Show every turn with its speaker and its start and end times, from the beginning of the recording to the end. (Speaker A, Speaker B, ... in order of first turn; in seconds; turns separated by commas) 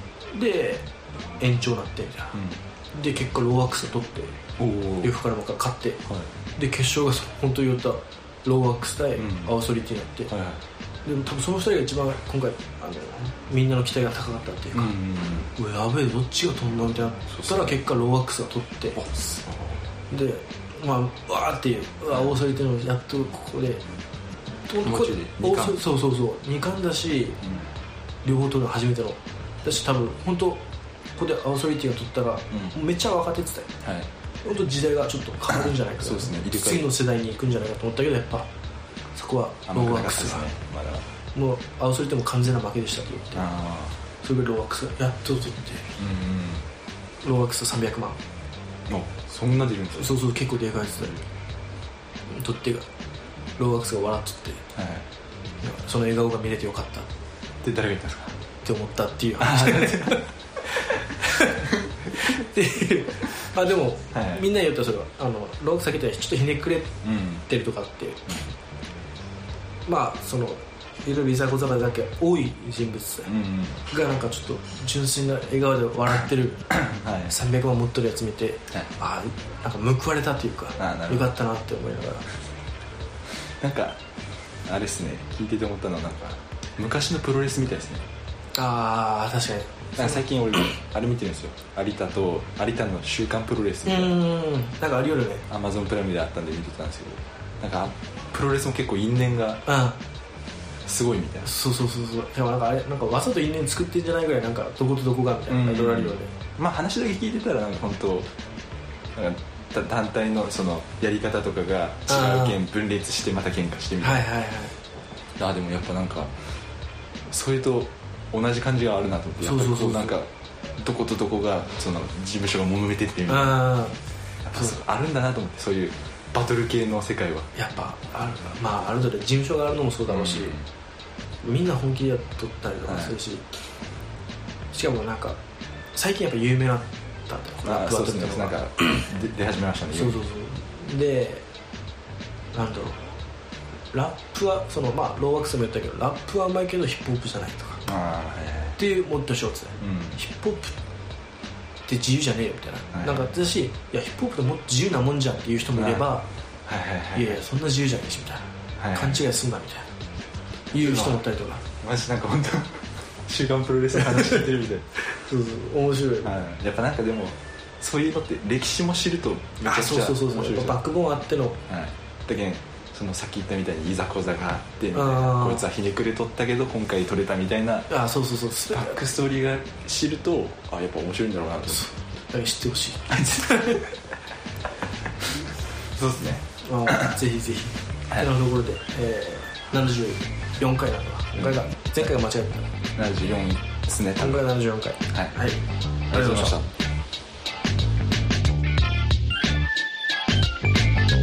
Speaker A: 0.3-2.4, Speaker B: 2.3-2.6, Speaker A: 2.9-4.4, Speaker B: 4.6-5.1, Speaker A: 5.0-6.0, Speaker A: 6.5-10.3, Speaker B: 9.2-9.5, Speaker B: 10.3-10.6, Speaker A: 11.0-14.9, Speaker B: 14.7-15.5, Speaker A: 15.5-19.0, Speaker B: 17.3-17.8, Speaker B: 18.9-19.8, Speaker A: 20.1-23.8, Speaker A: 24.7-27.4, Speaker B: 24.8-25.8, Speaker B: 27.4-27.7, Speaker A: 28.2-30.6, Speaker A: 31.1-33.7, Speaker B: 32.5-32.8, Speaker B: 33.8-34.1, Speaker A: 34.4-38.5, Speaker B: 35.5-37.0, Speaker A: 39.1-40.5, Speaker B: 39.7-41.0, Speaker A: 41.3-43.5, Speaker B: 43.3-44.0, Speaker A: 44.2-46.0, Speaker B: 46.0-46.6, Speaker A: 47.2-48.2, Speaker B: 48.9-50.2, Speaker A: 49.9-51.2, Speaker A: 52.3-52.9, Speaker A: 53.6-54.6, Speaker B: 54.7-55.1, Speaker A: 55.6-57.1, Speaker B: 57.6-58.4, Speaker A: 58.6-60.3, Speaker B: 59.4-60.2, Speaker A: 60.9-68.2, Speaker B: 64.1-64.4, Speaker B: 67.0-67.5, Speaker A: 69.8-73.3, Speaker B: 73.2-73.8, Speaker A: 73.8-82.3, Speaker B: 76.7-77.3, Speaker B: 80.8-81.3, Speaker B: 83.6-84.0, Speaker B: 84.6-88.0, Speaker A: 88.5-90.2, Speaker B: 90.0-94.2, Speaker A: 93.8-95.5, Speaker B: 95.5-99.7, Speaker A: 99.7-100.0, Speaker B: 100.8-101.5, Speaker A: 101.4-106.3, Speaker B: 105.5-108.3, Speaker B: 109.1-114.2, Speaker A: 112.1-112.6, Speaker A: 114.0-114.7, Speaker B: 115.4-116.3, Speaker B: 117.3-123.6, Speaker A: 119.4-120.2, Speaker A: 123.3-124.0, Speaker B: 124.4-127.5, Speaker A: 127.5-130.6, Speaker B: 130.1-130.6, Speaker A: 131.4-133.4, Speaker B: 132.8-133.1, Speaker A: 134.7-135.4, Speaker A: 135.9-138.6, Speaker B: 137.6-140.2, Speaker A: 139.9-141.4, Speaker A: 142.5-143.1, Speaker A: 143.9-147.8, Speaker B: 147.8-148.8, Speaker A: 148.8-150.7, Speaker B: 149.8-150.2, Speaker A: 151.8-156.3, Speaker B: 152.9-153.3, Speaker B: 155.8-156.1, Speaker B: 156.6-157.4, Speaker A: 157.1-159.9, Speaker B: 158.8-159.2, Speaker A: 160.7-161.6, Speaker B: 160.7-161.2, Speaker B: 161.8-165.0, Speaker A: 164.0-164.3, Speaker A: 165.0-166.3, Speaker B: 166.2-170.8, Speaker A: 169.6-171.6, Speaker B: 171.7-177.9, Speaker A: 174.9-175.6, Speaker A: 177.9-179.0, Speaker B: 178.7-181.9, Speaker A: 181.7-183.8, Speaker B: 183.1-183.9, Speaker B: 185.9-187.2, Speaker A: 186.6-192.7, Speaker B: 192.9-194.5, Speaker A: 194.2-196.6, Speaker B: 195.1-195.4, Speaker B: 196.1-196.7